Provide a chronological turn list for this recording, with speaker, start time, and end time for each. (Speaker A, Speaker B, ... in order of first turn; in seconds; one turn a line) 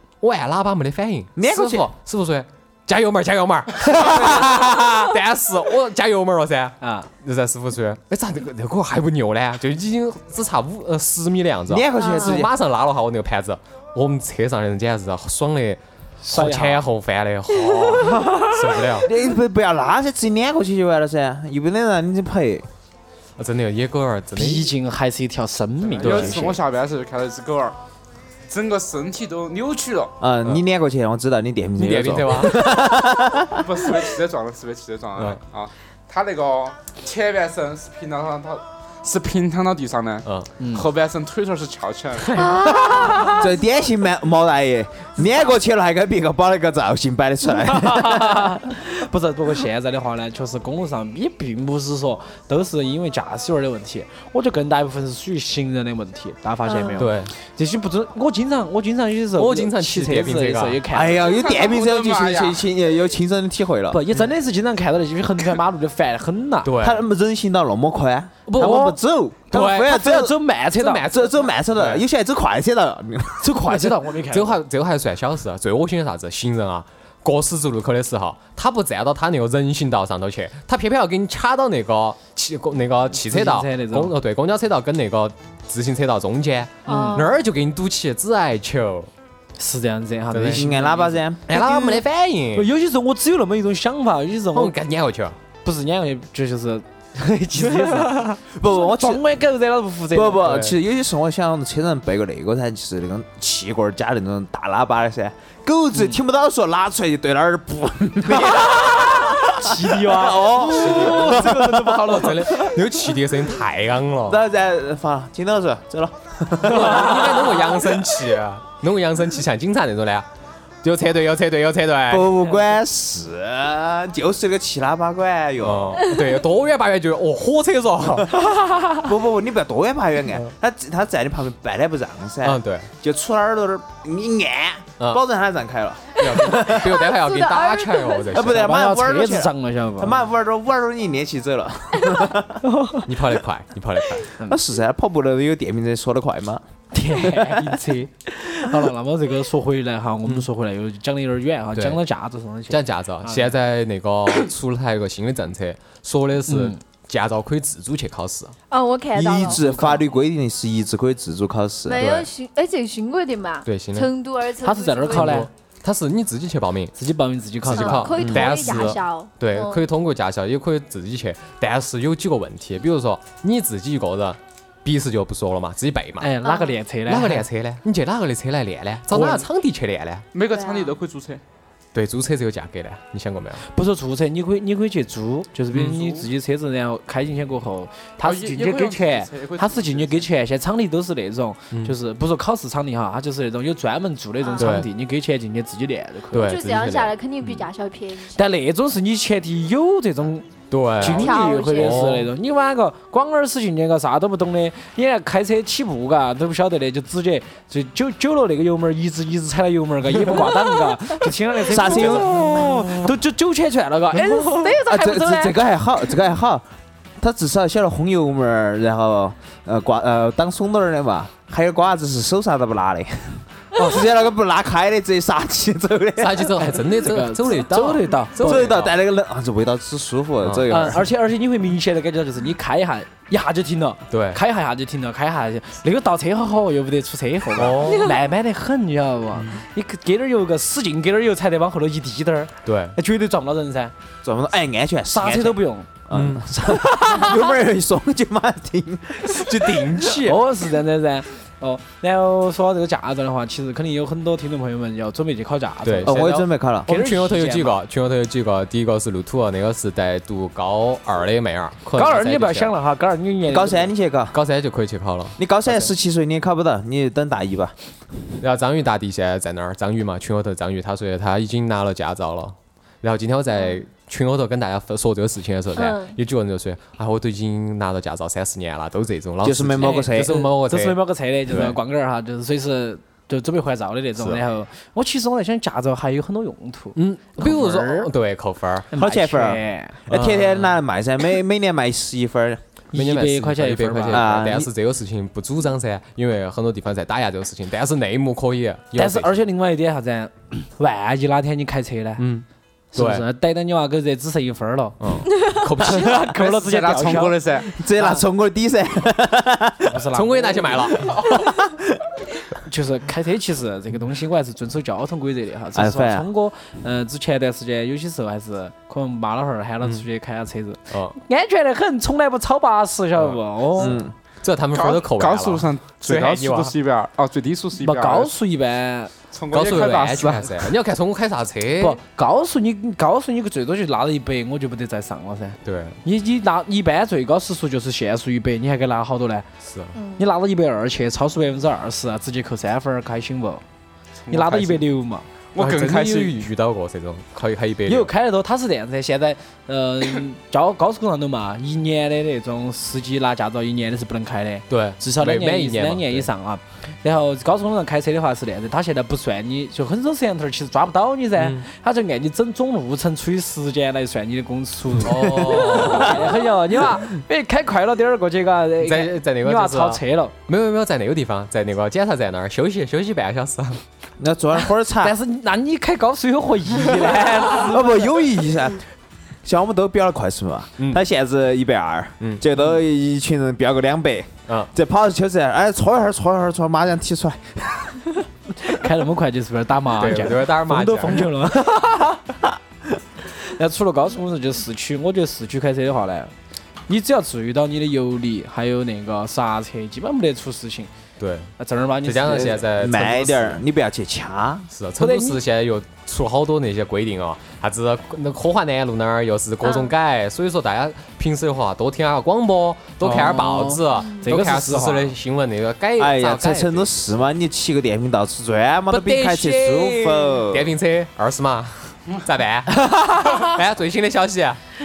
Speaker A: 0.2-19.1
Speaker B: 1.4-1.9
Speaker B: 4.0-4.4
Speaker C: 6.8-7.1
Speaker B: 11.7-12.5
Speaker D: 12.0-12.4
Speaker C: 16.2-16.8
Speaker B: 18.9-22.7
Speaker A: 23.4-24.7
Speaker C: 24.3-26.6
Speaker E: 25.9-27.8
Speaker A: 26.0-26.5
Speaker E: 28.5-30.1
Speaker B: 30.2-33.7
Speaker A: 31.8-32.8
Speaker E: 33.5-42.5
Speaker A: 40.2-40.5
Speaker C: 40.6-40.9
Speaker C: 42.3-43.4
Speaker D: 42.4-43.5
Speaker B: 43.2-48.6
Speaker C: 47.6-61.3
Speaker D: 56.6-57.0
Speaker A: 57.0-57.3
Speaker A: 59.4-60.8
Speaker B: 60.9-64.0
Speaker E: 61.1-62.6
Speaker C: 63.9-66.7
Speaker A: 66.6-67.0
Speaker B: 66.8-70.4
Speaker C: 68.5-69.0
Speaker A: 69.5-70.0
Speaker C: 69.8-71.1
Speaker A: 70.8-72.0
Speaker B: 71.1-74.0
Speaker C: 73.4-74.6
Speaker A: 74.3-89.1
Speaker C: 83.2-84.1
Speaker C: 86.8-87.3
Speaker D: 86.8-87.3
Speaker C: 89.6-94.7
Speaker A: 90.3-90.7
Speaker B: 90.5-91.6
Speaker A: 91.5-92.7
Speaker A: 94.5-95.4
Speaker C: 95.6-100.6
Speaker B: 98.4-99.2
Speaker B: 100.1-112.8
Speaker A: 100.5-100.7
Speaker C: 108.3-112.5
Speaker A: 110.6-114.4
Speaker B: 114.2-118.2
Speaker A: 116.6-120.3
Speaker A: 120.8-122.4
Speaker B: 122.1-126.1
Speaker A: 125.6-128.4
Speaker B: 129.0-137.0
Speaker A: 132.4-132.9
Speaker A: 136.2-138.7
Speaker D: 136.5-138.3
Speaker B: 138.3-142.6
Speaker C: 138.4-140.2
Speaker C: 142.6-143.1
Speaker A: 143.1-144.3
Speaker B: 144.4-146.6
Speaker C: 146.9-153.5
Speaker B: 147.2-147.8
Speaker A: 151.7-152.0
Speaker A: 152.7-158.6
Speaker C: 156.5-156.8
Speaker D: 158.7-159.9
Speaker B: 159.1-162.0
Speaker D: 161.8-165.5
Speaker A: 161.9-162.3
Speaker A: 163.7-164.1
Speaker C: 164.6-165.5
Speaker A: 165.1-166.9
Speaker C: 166.9-168.2
Speaker A: 167.6-176.4
Speaker D: 167.7-169.8
Speaker B: 168.2-168.6
Speaker C: 176.2-177.4
Speaker D: 176.4-176.7
Speaker A: 177.1-180.2
Speaker C: 179.1-179.4
Speaker E: 180.3-181.4
Speaker D: 180.5-180.9
Speaker A: 181.9-183.6
Speaker C: 183.7-196.6
Speaker E: 188.2-190.3
Speaker D: 194.4-194.7
Speaker A: 194.6-194.9
Speaker A: 196.3-197.7
Speaker D: 196.3-198.4
Speaker C: 198.3-215.0
Speaker A: 200.7-202.3
Speaker D: 201.0-202.0
Speaker B: 211.7-213.0
Speaker D: 214.2-215.6
Speaker B: 214.6-216.6
Speaker B: 217.2-226.5
Speaker A: 226.2-228.9
Speaker C: 226.6-228.7
Speaker B: 228.4-231.0
Speaker A: 230.4-230.9
Speaker C: 230.7-243.9
Speaker A: 234.1-234.4
Speaker A: 237.6-238.1
Speaker A: 242.7-242.9
Speaker B: 244.2-250.4
Speaker C: 245.1-245.9
Speaker A: 246.1-246.5
Speaker A: 249.6-250.3
Speaker C: 250.0-256.3
Speaker A: 255.8-262.7
Speaker B: 256.0-256.9
Speaker C: 256.9-257.8
Speaker C: 261.9-263.9
Speaker B: 263.5-264.4
Speaker A: 264.3-265.9
Speaker B: 265.4-267.7
Speaker A: 268.4-281.8
Speaker D: 275.7-276.1
Speaker B: 279.4-280.3
Speaker C: 279.8-288.1
Speaker A: 284.2-284.4
Speaker A: 286.9-288.9
Speaker C: 288.9-290.3
Speaker B: 288.9-292.6
Speaker A: 290.1-290.8
Speaker C: 292.9-294.6
Speaker A: 292.9-299.4
Speaker B: 294.1-294.7
Speaker C: 298.9-302.3
Speaker A: 302.2-303.2
Speaker C: 302.9-308.2
Speaker A: 305.0-306.3
Speaker D: 305.3-305.7
Speaker E: 306.3-307.7
Speaker B: 307.6-310.0
Speaker C: 309.8-311.3
Speaker A: 310.1-311.3
Speaker B: 311.5-311.8
Speaker C: 312.6-323.9
Speaker B: 315.7-316.3
Speaker A: 323.2-326.7
Speaker B: 323.8-324.1
Speaker E: 324.7-328.3
Speaker C: 327.8-329.1
Speaker E: 329.3-330.7
Speaker A: 329.5-332.0
Speaker C: 331.8-339.5
Speaker A: 335.6-336.0
Speaker A: 339.6-339.9
Speaker D: 339.9-340.2
Speaker C: 340.2-343.6
Speaker E: 344.2-344.8
Speaker C: 344.3-345.3
Speaker E: 345.5-346.4
Speaker A: 345.5-348.1
Speaker C: 347.9-370.3
Speaker A: 354.7-356.3
Speaker A: 361.4-361.6
Speaker A: 365.0-366.3
Speaker A: 368.8-373.8
Speaker B: 374.2-375.1
Speaker C: 374.9-378.2
Speaker B: 377.5-378.9
Speaker B: 379.4-388.1
Speaker C: 388.6-392.4
Speaker A: 390.0-391.3
Speaker C: 393.3-396.3
Speaker C: 396.9-400.9
Speaker A: 401.2-401.5
Speaker C: 401.6-402.6
Speaker A: 402.0-403.6
Speaker B: 402.3-404.7
Speaker A: 404.7-416.9
Speaker C: 405.0-405.4
Speaker D: 409.6-409.9
Speaker C: 413.0-415.1
Speaker B: 416.0-420.7
Speaker A: 418.9-424.6